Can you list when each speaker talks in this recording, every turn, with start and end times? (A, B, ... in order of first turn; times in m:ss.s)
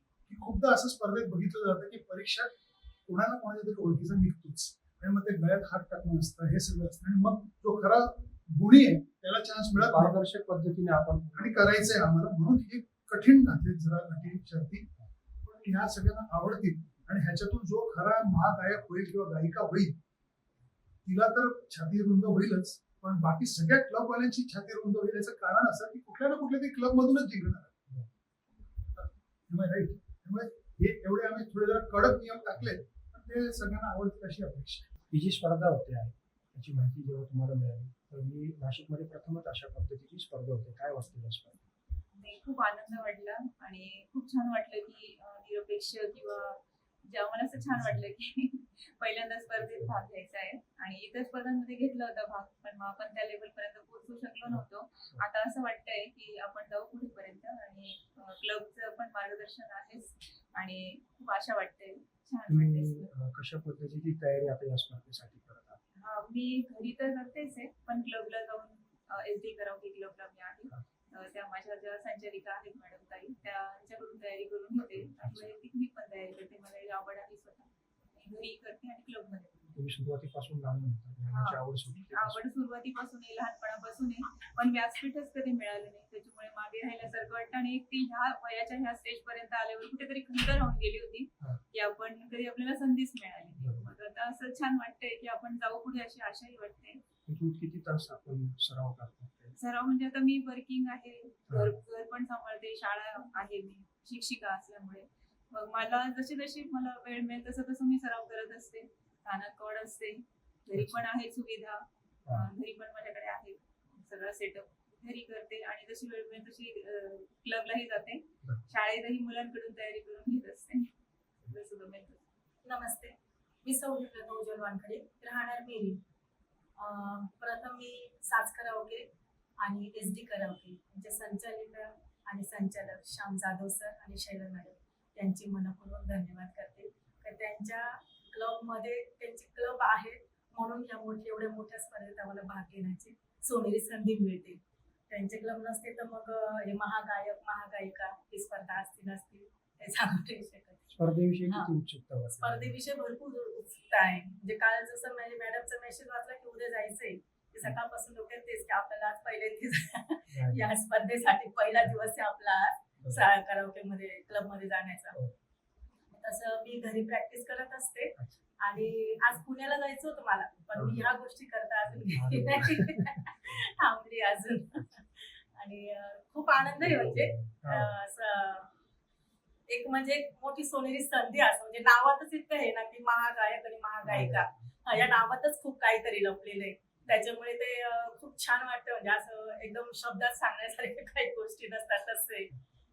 0:00.3-0:02.5 A
0:03.1-0:10.2 A
0:09.8-0:11.7 B
0:11.4-0:14.9 A
0:15.4-0:20.0 A
0:21.0-0:27.7 A
0:29.0-0:34.9 A
0:35.1-0:41.6 B
0:42.2-1:03.1 C
1:02.5-1:05.8 B
1:06.0-1:19.8 C
1:15.2-1:15.5 B
1:19.7-1:22.4 B
1:21.3-1:37.0 C
1:33.6-1:33.9 B
1:37.3-1:39.6 B
1:39.6-2:00.9 C
2:01.4-2:02.2 C
2:02.6-2:06.0 D
2:06.8-2:09.0 D
2:09.6-2:31.7 D
2:31.0-2:32.8 B
2:32.3-2:45.2 D
2:40.3-2:40.7 B
2:46.1-2:58.7 D
2:52.1-2:53.0 B
2:56.9-2:57.9 B
2:59.7-3:12.5 D
3:04.1-3:04.4 B